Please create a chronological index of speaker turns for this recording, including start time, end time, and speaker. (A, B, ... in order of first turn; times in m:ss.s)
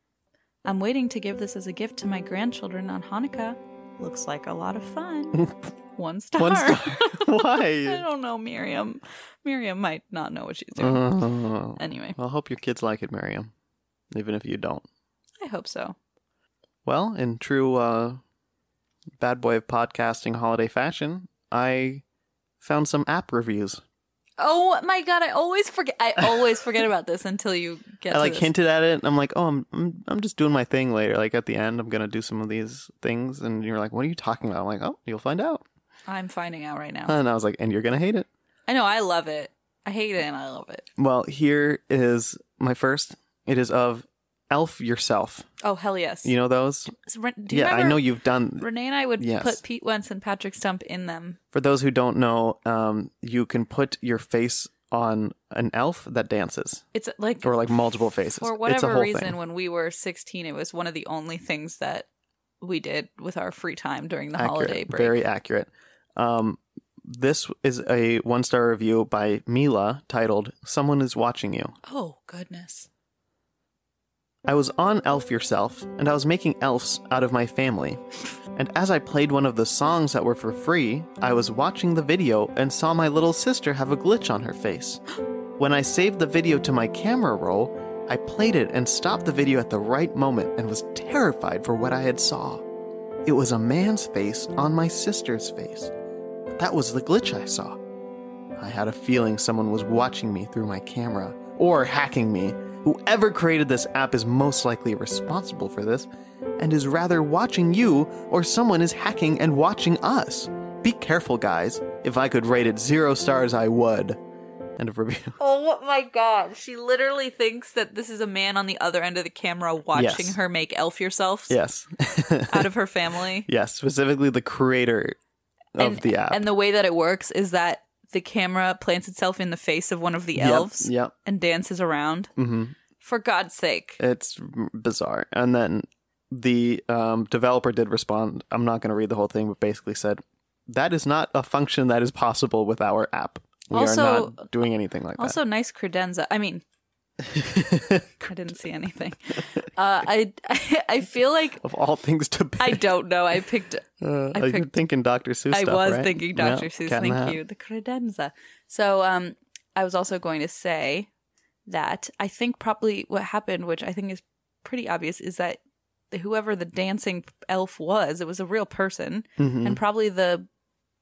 0:00.6-0:11.1 A
0:06.4-0:08.0 B
0:10.8-0:13.5 B
0:11.8-0:12.2 A
0:14.1-0:14.8 B
0:15.4-0:16.0 A
0:16.8-0:18.2 B
0:19.2-0:22.0 B
0:22.6-0:23.8 B
0:24.4-0:28.5 A
0:28.1-0:35.6 B
0:36.1-0:37.1 A
0:37.0-0:38.3 B
0:38.7-0:40.8 A
0:41.0-0:45.5 B
0:45.6-0:46.3 A
0:46.2-0:46.9 B
0:47.0-0:48.0 A
0:47.5-0:48.7 B
0:48.6-0:51.4 A
0:49.2-0:49.6 B
0:51.5-0:56.8 B
0:56.9-0:57.5 A
0:57.4-0:59.4 B
0:58.2-1:02.1 A
1:02.6-1:05.2 A
1:04.4-1:11.8 B
1:11.8-1:12.9 A
1:14.4-1:18.0 B
1:18.5-1:25.0 B
1:25.6-1:32.6 B
1:33.2-1:35.9 B
1:36.6-1:37.8 B
1:38.6-1:46.1 B
1:46.6-1:54.2 B
1:54.8-1:55.4 B
1:55.4-2:01.6 A
1:59.9-2:00.4 B
2:01.5-2:02.7 B
2:02.5-2:03.5 A
2:03.5-2:05.2 B
2:05.8-2:06.5 B
2:05.8-2:12.3 A
2:10.4-2:11.1 B
2:12.4-2:12.7 B
2:13.0-2:14.0 A
2:14.0-2:25.4 B
2:23.7-2:24.5 A
2:25.2-2:26.6 A
2:27.2-2:28.2 B
2:28.2-2:31.6 A
2:31.6-2:32.8 B
2:32.6-2:34.7 A
2:34.0-2:37.4 B
2:35.5-2:41.1 A
2:41.7-2:45.6 A
2:46.1-2:50.5 A
2:49.4-2:49.8 B